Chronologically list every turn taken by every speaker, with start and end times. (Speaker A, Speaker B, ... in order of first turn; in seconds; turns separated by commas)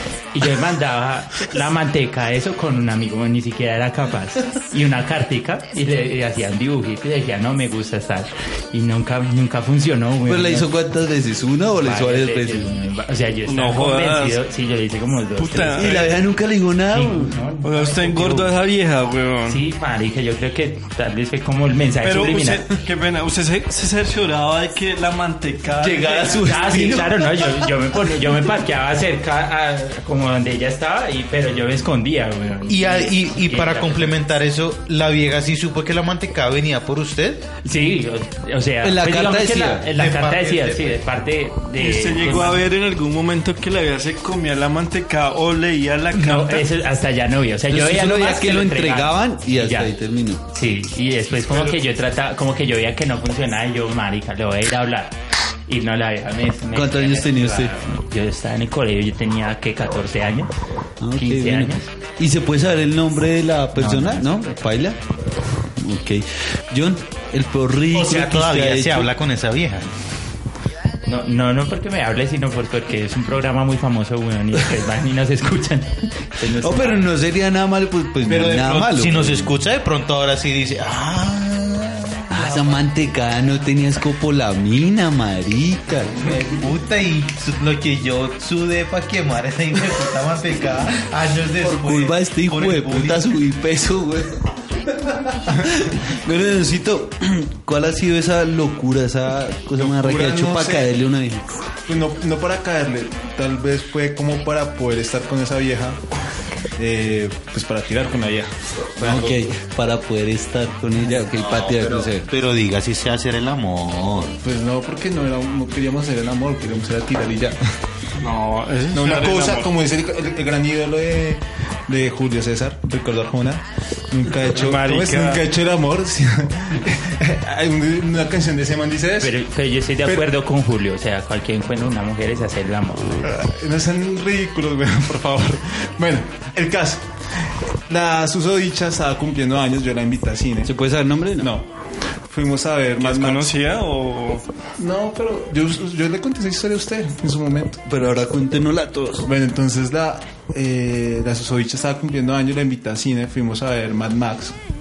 Speaker A: 0.3-10.7, Speaker B: 10.3-12.7, Speaker A: 11.8-16.1, Speaker C: 13.5-14.4, Speaker C: 15.4-16.1, Speaker B: 15.8-17.4, Speaker A: 16.9-18.5, Speaker C: 17.6-19.6, Speaker A: 19.5-22.8, Speaker C: 22.0-26.5, Speaker B: 25.8-27.3, Speaker A: 26.3-34.2, Speaker D: 32.7-37.5, Speaker A: 37.6-42.7, Speaker B: 38.8-39.9, Speaker D: 40.0-41.0, Speaker C: 41.8-46.7, Speaker A: 46.1-49.9, Speaker B: 47.7-50.4, Speaker A: 50.5-55.1, Speaker A: 55.7-60.5, Speaker B: 56.7-57.8, Speaker B: 61.0-65.0, Speaker A: 61.1-61.9, Speaker A: 63.8-64.4, Speaker B: 65.8-69.1, Speaker D: 67.9-69.9, Speaker A: 71.1-77.1, Speaker B: 76.5-79.6, Speaker D: 78.3-82.9, Speaker B: 82.3-86.3, Speaker D: 86.2-93.3, Speaker B: 91.6-94.3, Speaker B: 95.6-101.5, Speaker E: 99.8-100.9, Speaker E: 101.9-106.0, Speaker E: 106.8-109.4, Speaker B: 109.0-112.3, Speaker D: 111.1-114.4, Speaker E: 114.4-117.6, Speaker C: 118.2-119.7, Speaker E: 118.9-129.3, Speaker C: 124.4-125.5, Speaker A: 129.2-133.3, Speaker E: 133.2-137.0, Speaker E: 137.9-140.7, Speaker B: 140.7-141.5, Speaker E: 141.4-141.7, Speaker E: 142.3-143.5, Speaker C: 143.0-144.4, Speaker E: 144.8-147.8, Speaker B: 147.9-149.3, Speaker E: 149.2-154.5